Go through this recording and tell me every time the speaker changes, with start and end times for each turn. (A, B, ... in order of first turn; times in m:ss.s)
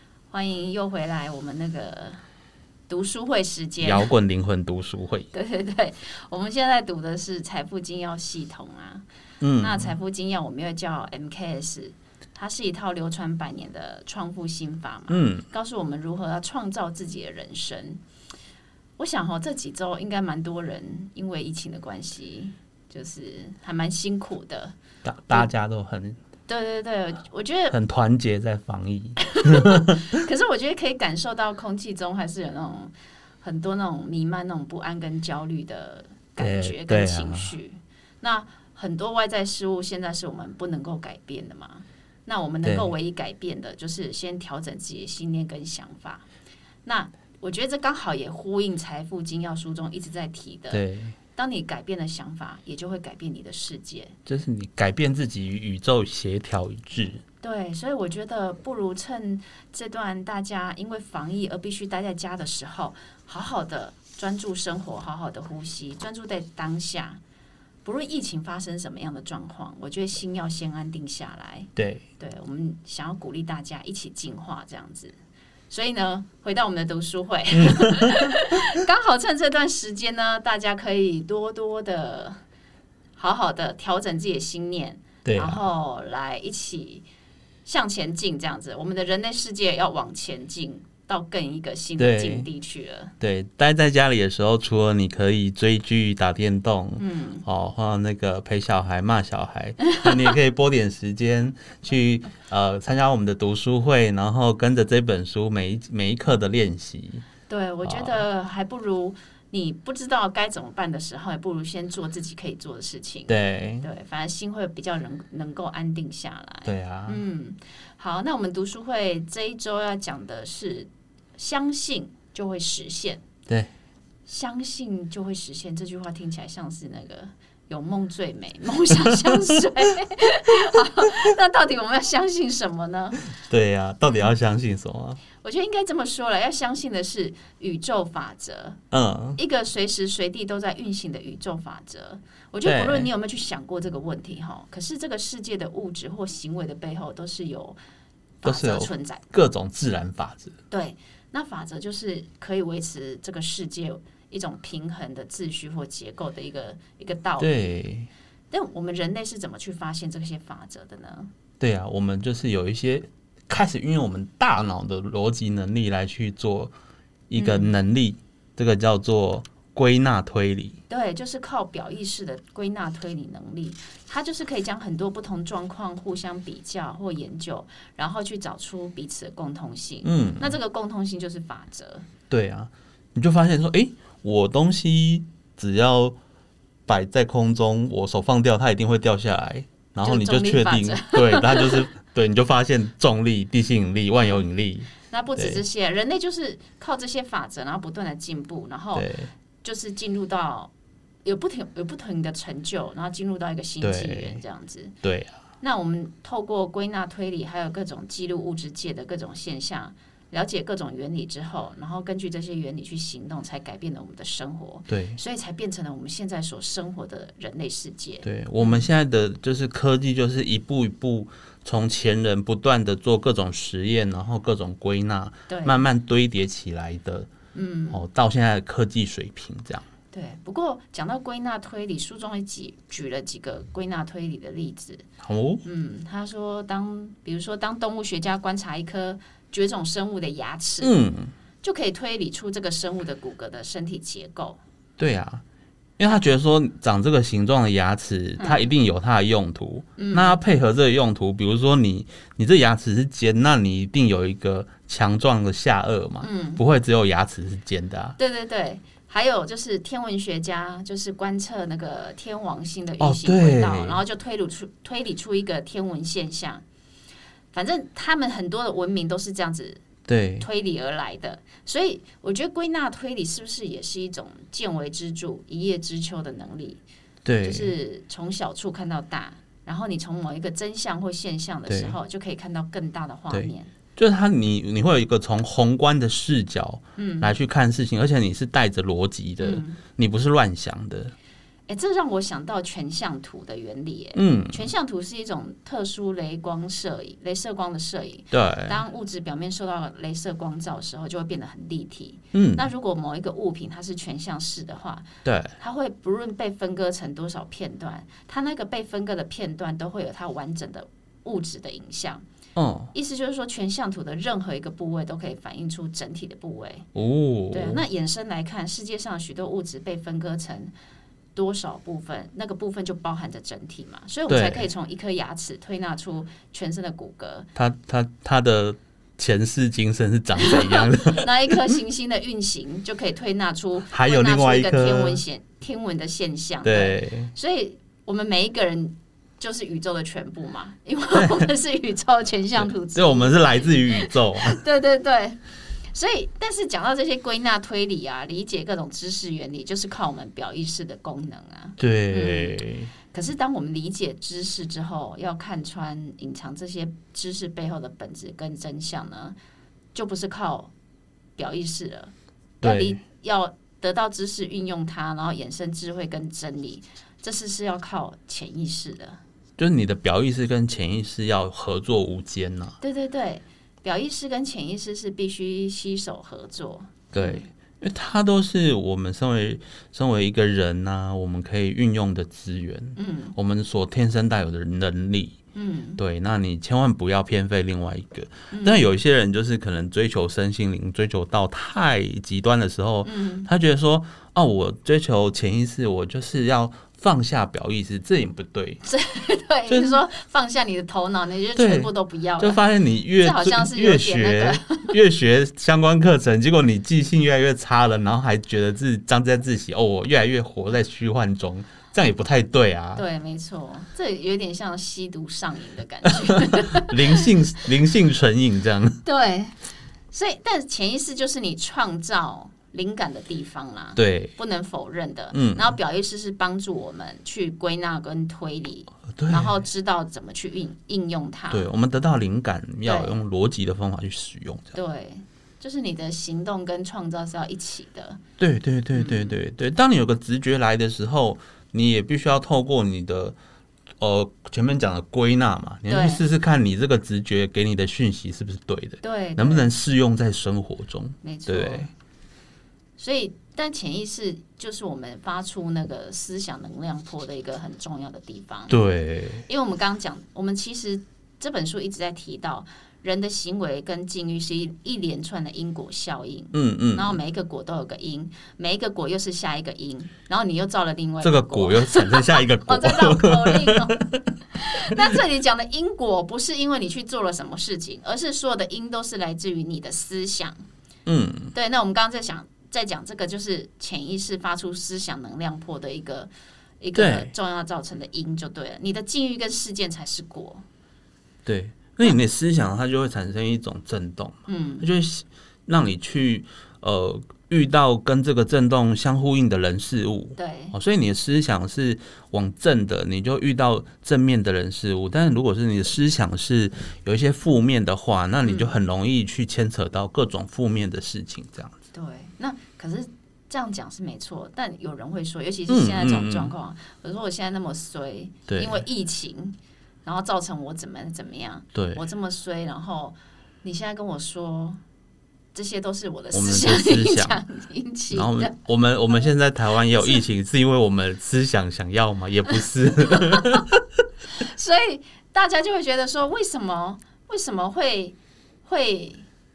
0:00.3-0:02.2 A
0:02.9-0:04.1 A
0:03.8-0:05.3 B
0:05.3-0:09.0 A
0:09.4-0:09.9 B
0:09.6-0:18.0 A
0:15.1-0:15.4 B
0:19.0-0:24.7 A
0:25.0-0:26.2 B
0:26.5-0:27.8 A
0:27.7-0:30.2 B
0:29.2-0:46.2 A
0:36.4-0:37.5 B
0:42.6-0:42.9 B
0:46.8-0:50.8 A
0:50.7-0:51.2 B
0:51.4-0:54.2 A
0:54.2-0:57.2 B
0:57.4-1:07.2 A
1:07.8-1:15.2 A
1:11.8-1:12.0 B
1:15.7-1:22.4 A
1:17.5-1:18.4 B
1:23.2-1:27.0 A
1:25.2-1:25.6 B
1:27.6-1:33.1 A
1:32.0-1:32.5 B
1:33.2-1:47.2 B
1:37.0-1:37.4 A
1:47.5-2:03.2 A
1:47.8-1:48.2 B
1:53.3-1:53.9 B
1:56.6-1:57.2 B
2:04.3-2:13.2 A
2:09.0-2:09.6 B
2:13.4-2:15.2 B
2:15.4-2:18.8 A
2:18.9-2:19.4 B
2:19.4-2:27.8 A
2:22.6-2:23.1 B
2:28.4-2:29.2 A
2:28.4-2:30.5 B
2:30.7-2:37.7 A
2:37.4-2:38.1 B
2:38.5-2:41.3 A
2:41.6-2:46.7 B
2:47.3-2:50.8 B
2:47.4-2:47.7 A
2:50.9-3:02.1 A
3:00.0-3:00.6 B
3:02.3-3:06.2 B
3:06.9-3:15.6 B
3:10.0-3:11.9 A
3:15.1-3:19.1 A
3:18.9-3:19.3 B
3:19.6-3:20.7 A
3:21.2-3:24.9 A
3:23.8-3:24.4 B
3:25.0-3:25.4 B
3:25.6-3:38.8 A
3:34.9-3:35.2 B
3:38.2-3:47.3 B
3:45.5-3:45.8 A
3:47.5-3:48.0 A
3:47.9-3:49.8 B
3:50.1-3:55.0 A
3:55.2-3:55.6 B
3:55.6-4:00.9 A
4:00.8-4:01.3 B
4:01.6-4:04.6 A
4:05.0-4:05.4 B
4:06.0-4:18.2 B
4:08.4-4:08.7 A
4:10.0-4:10.4 A
4:16.2-4:16.6 A
4:18.2-4:26.6 A
4:23.0-4:24.0 B
4:27.5-4:29.8 A
4:30.1-4:30.5 B
4:30.4-4:36.8 A
4:37.2-4:37.7 B
4:37.4-4:43.7 A
4:41.7-4:41.9 B
4:43.3-4:51.1 B
4:47.0-4:47.3 A
4:49.4-4:49.8 A
4:51.7-5:05.1 A
4:54.1-4:54.7 B
4:58.3-4:58.8 B
5:02.3-5:02.6 B
5:05.2-5:05.6 B
5:05.6-5:12.2 A
5:12.6-5:12.9 B
5:12.9-5:16.9 A
5:16.9-5:17.8 B
5:17.5-5:20.7 A
5:21.3-5:27.5 A
5:24.3-5:24.7 B
5:27.5-5:31.7 B
5:30.4-5:45.4 A
5:33.9-5:35.2 B
5:36.6-5:37.3 B
5:41.2-5:41.4 B
5:42.6-5:44.6 B
5:45.9-5:52.6 A
5:51.8-5:52.9 B
5:53.1-5:59.4 A
5:59.9-6:00.7 A
6:01.4-6:09.2 A
6:02.6-6:03.0 B
6:09.6-6:12.8 B
6:12.8-6:17.5 A
6:17.1-6:25.4 B
6:23.0-6:23.3 A
6:25.5-6:26.0 A
6:26.0-6:38.8 B
6:28.5-6:28.9 A
6:33.0-6:33.5 A
6:38.8-6:42.6 A
6:39.7-6:40.0 B
6:41.6-6:53.0 B
6:43.2-6:44.9 A
6:52.9-6:57.3 A
6:56.2-6:59.0 B
6:59.0-6:59.5 A
7:00.1-7:11.7 A
7:04.0-7:04.3 B
7:05.3-7:05.8 B
7:09.1-7:09.6 B
7:11.5-7:14.8 B
7:12.8-7:13.2 A
7:14.7-7:18.2 A
7:18.4-7:23.4 B
7:18.9-7:19.3 A
7:24.0-7:31.9 B
7:25.9-7:26.2 A
7:29.0-7:29.7 A
7:31.2-7:31.9 A
7:33.0-7:38.8 A
7:38.7-7:39.4 B
7:39.4-8:00.6 A
7:46.5-7:47.2 B
7:51.2-7:54.2 B
7:54.9-7:55.2 B
8:01.0-8:01.5 B
8:01.5-8:06.3 A
8:06.8-8:10.6 A
8:06.9-8:07.3 B
8:11.4-8:31.8 B
8:14.5-8:14.9 A
8:20.4-8:20.7 A
8:28.4-8:28.8 A
8:31.9-8:44.8 A
8:35.7-8:36.5 B
8:38.5-8:38.8 B
8:41.7-8:42.0 B
8:45.5-8:48.6 A
8:46.3-8:47.4 B
8:48.1-8:53.8 B
8:53.0-8:53.6 A
8:54.3-8:59.2 A